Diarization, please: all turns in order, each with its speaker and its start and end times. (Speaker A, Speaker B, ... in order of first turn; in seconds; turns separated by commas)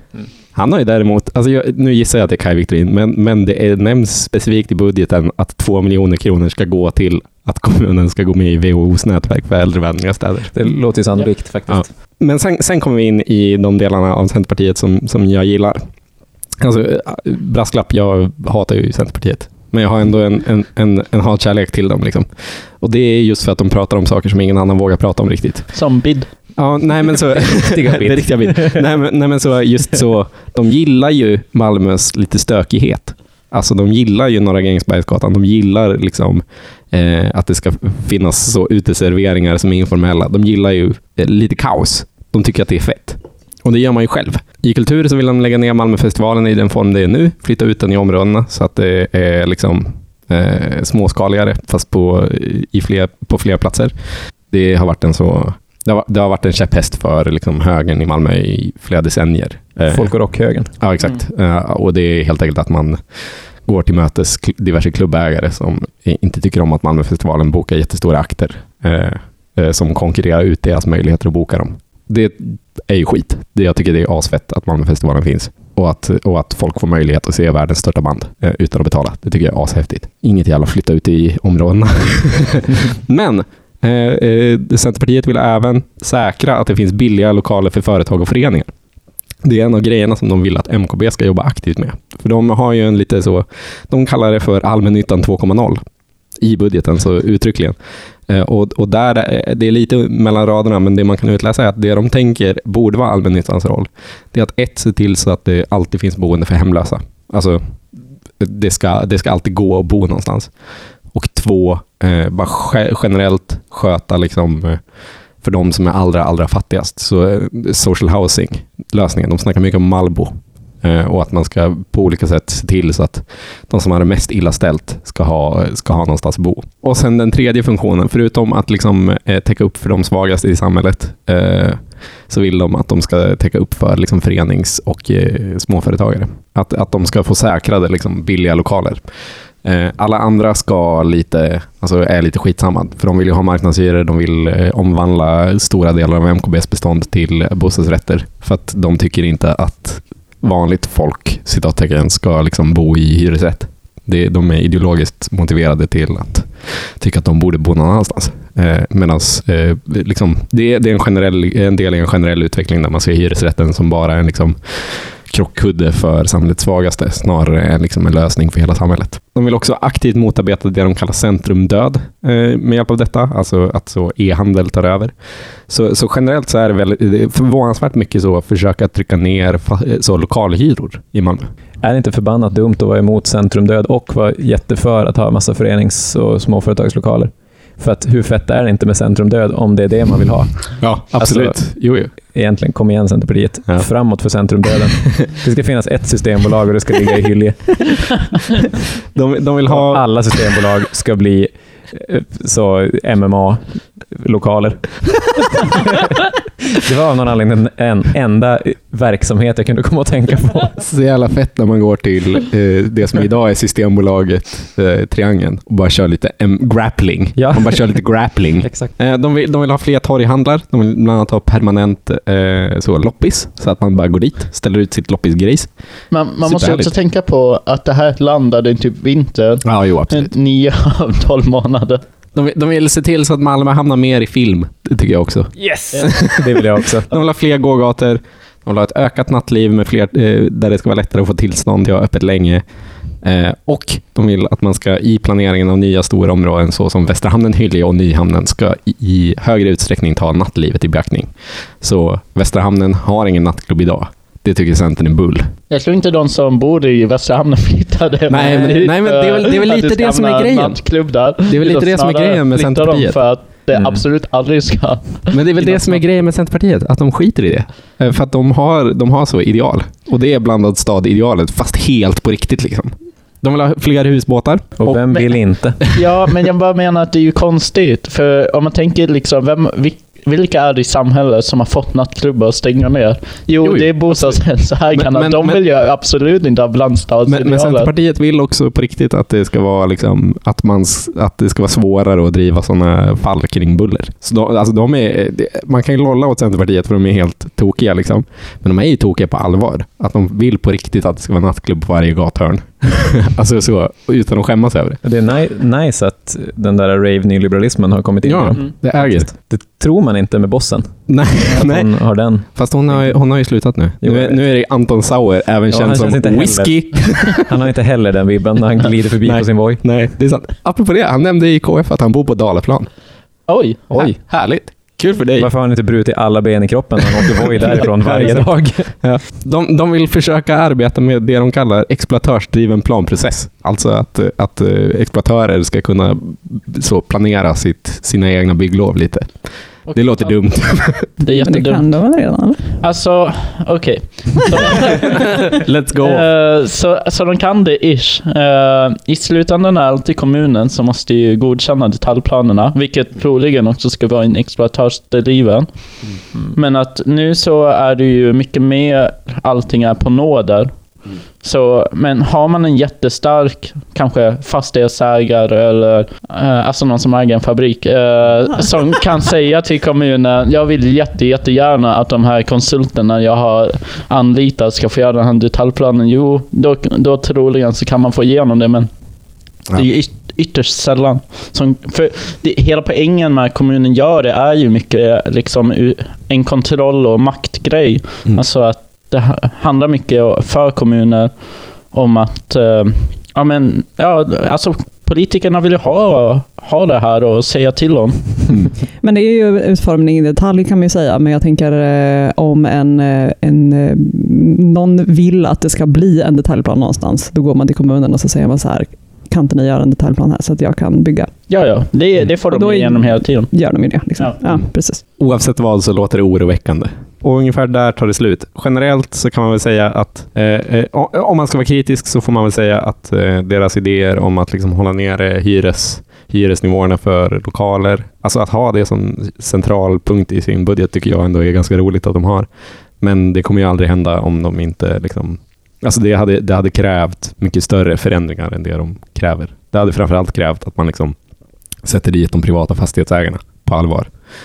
Speaker A: 0.6-10.6, Speaker B: 10.5-11.9, Speaker A: 11.7-15.9, Speaker A: 16.6-25.7, Speaker C: 25.7-26.3, Speaker A: 26.6-54.0, Speaker B: 27.4-28.8, Speaker A: 54.5-88.7, Speaker B: 59.9-60.7, Speaker A: 89.4-95.8, Speaker A: 96.4-97.8, Speaker A: 98.3-107.7, Speaker A: 108.4-110.5, Speaker A: 111.1-114.8, Speaker A: 115.4-139.1, Speaker A: 139.6-175.1, Speaker A: 175.7-181.5, Speaker B: 181.8-198.2, Speaker A: 190.8-192.1, Speaker A: 199.1-200.6, Speaker B: 199.7-206.2, Speaker B: 206.7-210.8, Speaker A: 210.8-225.7, Speaker B: 217.4-218.1, Speaker B: 218.6-218.9, Speaker C: 226.1-232.0, Speaker A: 226.4-226.9, Speaker A: 229.6-230.3, Speaker A: 232.3-242.6, Speaker C: 235.6-236.3, Speaker B: 236.1-237.1, Speaker A: 243.2-255.5, Speaker C: 255.7-266.1, Speaker A: 258.3-260.9, Speaker A: 261.4-263.2, Speaker B: 263.7-264.0, Speaker A: 265.3-275.2, Speaker B: 274.8-275.8, Speaker C: 275.9-287.9, Speaker A: 283.6-285.6, Speaker A: 287.3-305.0, Speaker B: 305.0-313.2, Speaker A: 308.2-309.3, Speaker A: 311.1-317.5, Speaker B: 314.0-314.4, Speaker B: 315.7-319.9, Speaker A: 319.2-322.9, Speaker C: 323.5-323.8, Speaker B: 323.9-324.2, Speaker A: 323.9-325.5, Speaker B: 325.4-328.9, Speaker A: 327.2-341.2, Speaker C: 339.9-341.9, Speaker D: 341.3-342.8, Speaker C: 342.8-345.3, Speaker A: 345.0-346.3, Speaker C: 346.0-355.7, Speaker C: 356.5-360.7, Speaker C: 361.4-378.9, Speaker C: 379.7-398.6, Speaker D: 399.0-411.3, Speaker C: 411.5-413.5, Speaker D: 412.5-415.0, Speaker A: 415.2-432.5, Speaker A: 433.0-441.1, Speaker A: 441.8-444.1